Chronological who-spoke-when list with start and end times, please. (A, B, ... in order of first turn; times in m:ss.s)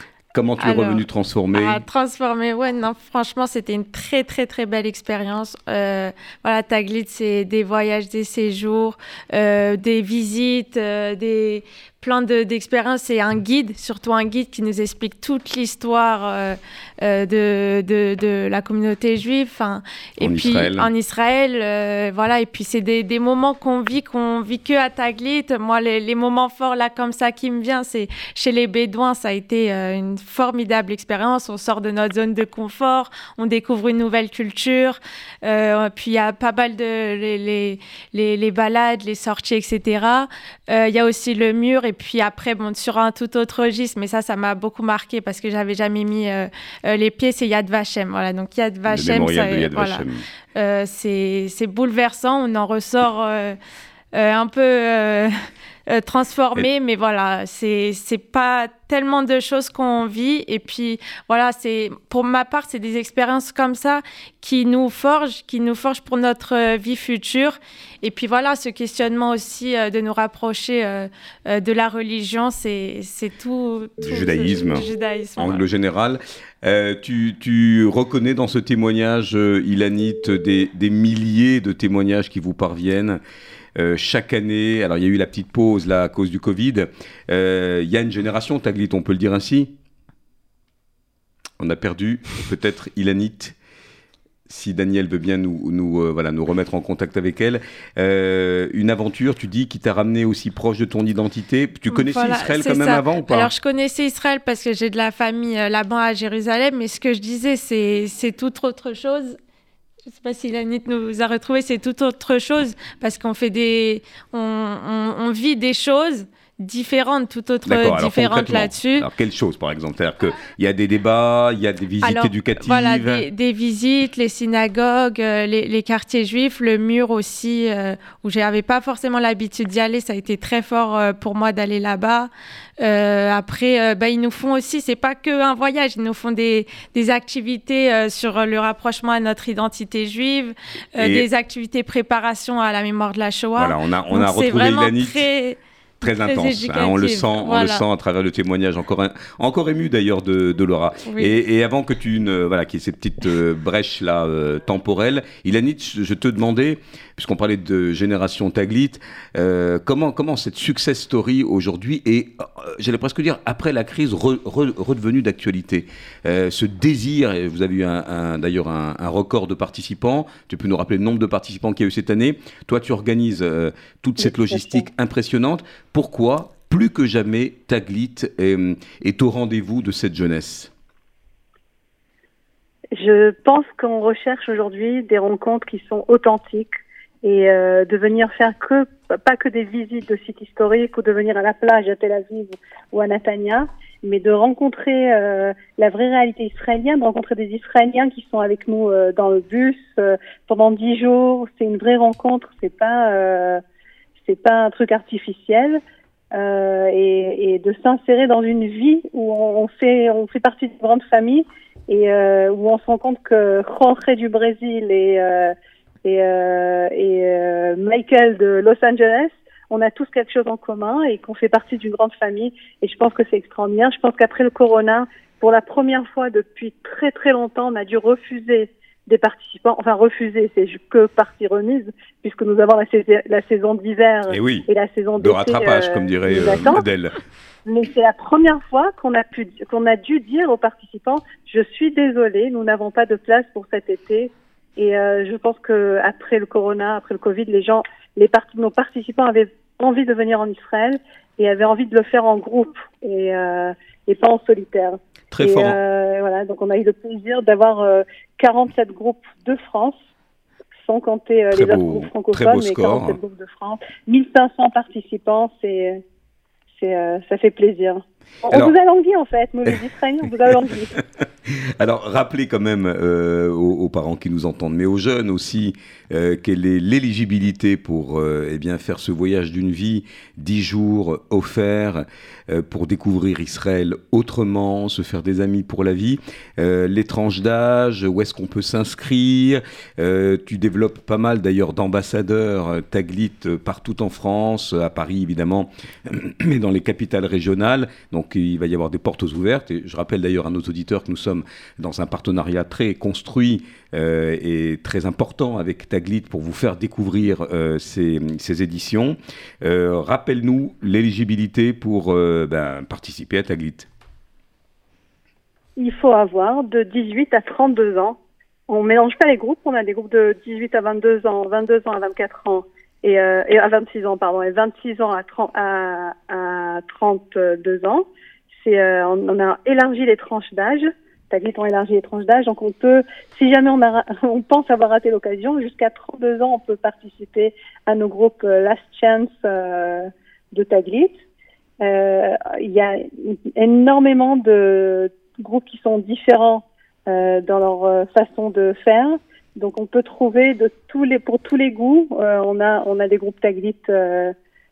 0:00.3-0:01.8 A
0:00.6-0:50.0 B
0:20.2-0:20.9 A
0:48.9-0:50.2 A
0:50.6-0:53.6 B
0:54.1-0:55.3 B
0:55.9-1:15.7 B
1:14.0-1:14.8 A
1:15.4-1:23.2 A
1:23.8-1:29.7 A
1:31.6-1:33.6 A
1:34.5-1:43.5 A
1:41.9-1:49.4 B
1:50.1-1:59.1 B
1:57.6-2:03.3 A
2:02.0-2:12.3 B
2:12.8-2:27.8 B
2:21.0-2:21.3 A
2:23.6-2:25.3 A
2:26.0-3:00.7 A
2:54.3-2:54.8 C
3:02.9-3:06.7 C
3:07.2-3:23.6 C
3:24.2-3:25.8 C
3:26.4-3:35.5 C
3:36.0-3:56.9 C
3:54.3-3:54.7 A
3:55.2-3:57.2 A
3:57.7-4:20.0 C
4:15.3-4:15.8 A
4:20.8-4:26.0 C
4:21.5-4:23.2 A
4:26.8-4:30.9 C
4:31.0-5:13.9 A
5:15.8-5:18.2 C
5:18.7-5:28.1 C
5:28.6-5:41.1 C
5:41.8-5:54.3 C